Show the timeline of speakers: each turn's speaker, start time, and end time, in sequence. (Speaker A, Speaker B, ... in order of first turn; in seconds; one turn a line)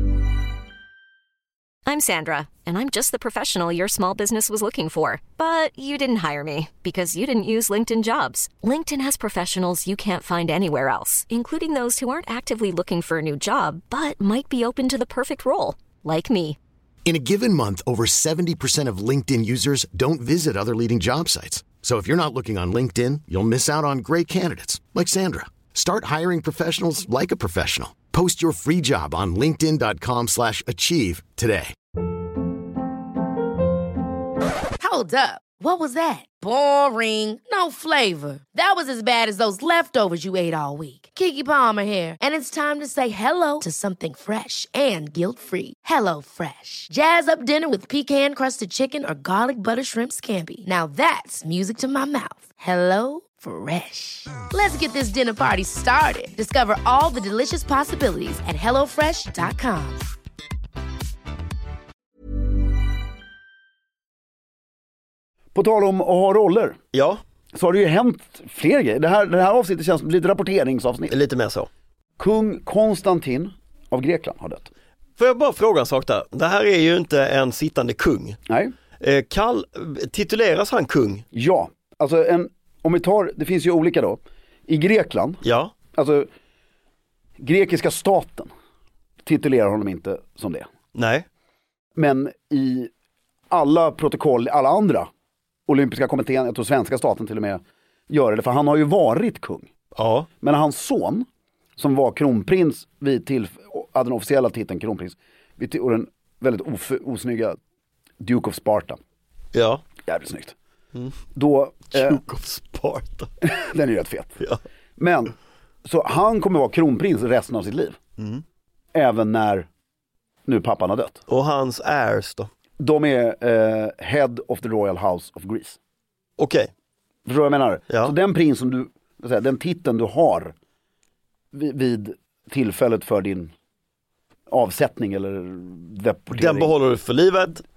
Speaker A: 1.9-16.6
Speaker B: 17.1-31.8
Speaker C: 34.8-60.0
Speaker D: 65.5-66.8
Speaker E: 66.9-67.2
Speaker D: 67.5-71.2
Speaker E: 71.1-71.7
Speaker D: 72.2-74.7
Speaker E: 75.2-78.4
Speaker D: 78.5-78.7
Speaker E: 79.0-81.2
Speaker D: 81.3-85.4
Speaker E: 85.4-85.7
Speaker D: 85.9-86.3
Speaker D: 87.4-88.5
Speaker D: 89.2-90.7
Speaker E: 91.0-91.2
Speaker D: 92.0-92.9
Speaker D: 93.5-95.1
Speaker D: 95.7-99.7
Speaker E: 100.0-100.3
Speaker D: 100.4-107.6
Speaker D: 108.2-109.0
Speaker E: 109.5-109.8
Speaker D: 110.0-110.6
Speaker D: 111.3-112.2
Speaker E: 111.9-113.3
Speaker D: 113.4-114.4
Speaker D: 115.0-118.0
Speaker D: 118.9-119.7
Speaker D: 120.5-121.2
Speaker E: 121.3-122.5
Speaker D: 122.8-125.8
Speaker E: 126.4-126.7
Speaker D: 127.3-130.6
Speaker D: 131.5-133.5
Speaker D: 134.5-136.7
Speaker E: 136.3-137.6